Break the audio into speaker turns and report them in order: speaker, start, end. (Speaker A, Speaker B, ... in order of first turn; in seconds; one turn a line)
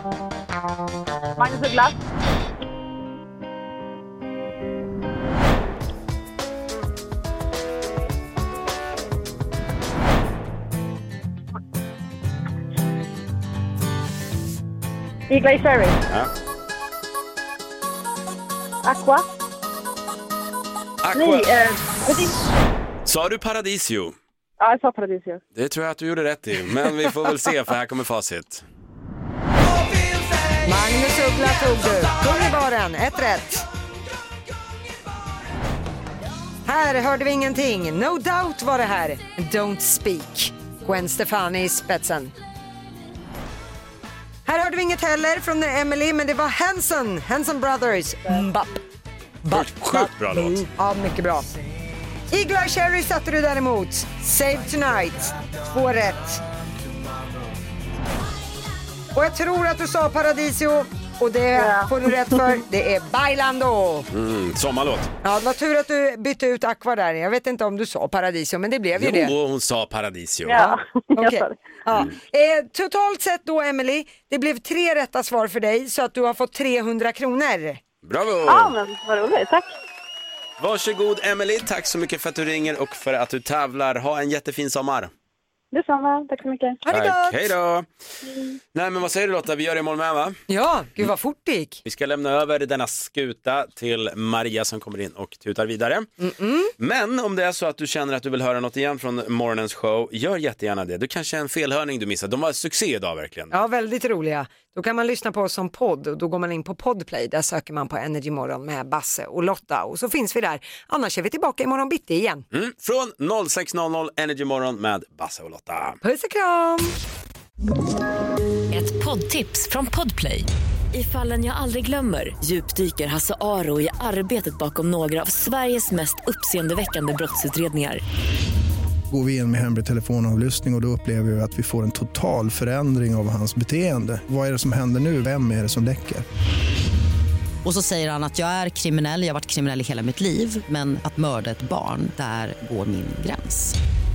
Speaker A: 1.4-1.9
Speaker A: 15.3-16.0
Speaker A: 18.9-19.2
Speaker B: 21.0-21.5
Speaker A: 21.1-22.4
Speaker B: 23.1-24.1
Speaker A: 24.6-25.4
Speaker B: 25.5-28.6
Speaker C: 30.6-33.6
Speaker C: 36.6-42.3
Speaker C: 44.5-48.8
Speaker C: 49.4-51.5
Speaker B: 49.5-50.6
Speaker C: 52.3-56.4
Speaker C: 59.1-64.0
Speaker A: 61.5-61.9
Speaker B: 64.1-65.1
Speaker C: 65.2-69.3
Speaker B: 68.9-70.6
Speaker A: 70.5-71.7
Speaker C: 70.5-77.8
Speaker B: 78.0-78.8
Speaker A: 78.4-79.7
Speaker B: 80.6-85.1
Speaker A: 85.7-86.8
Speaker C: 86.8-87.4
Speaker B: 86.9-87.9
Speaker B: 88.7-90.4
Speaker C: 90.5-91.8
Speaker B: 91.8-96.1
Speaker C: 96.2-96.7
Speaker B: 96.8-103.5
Speaker C: 103.5-112.4
Speaker B: 112.5-116.0
Speaker C: 116.0-117.0
Speaker D: 118.7-128.0
Speaker E: 129.1-136.2
Speaker F: 137.6-143.8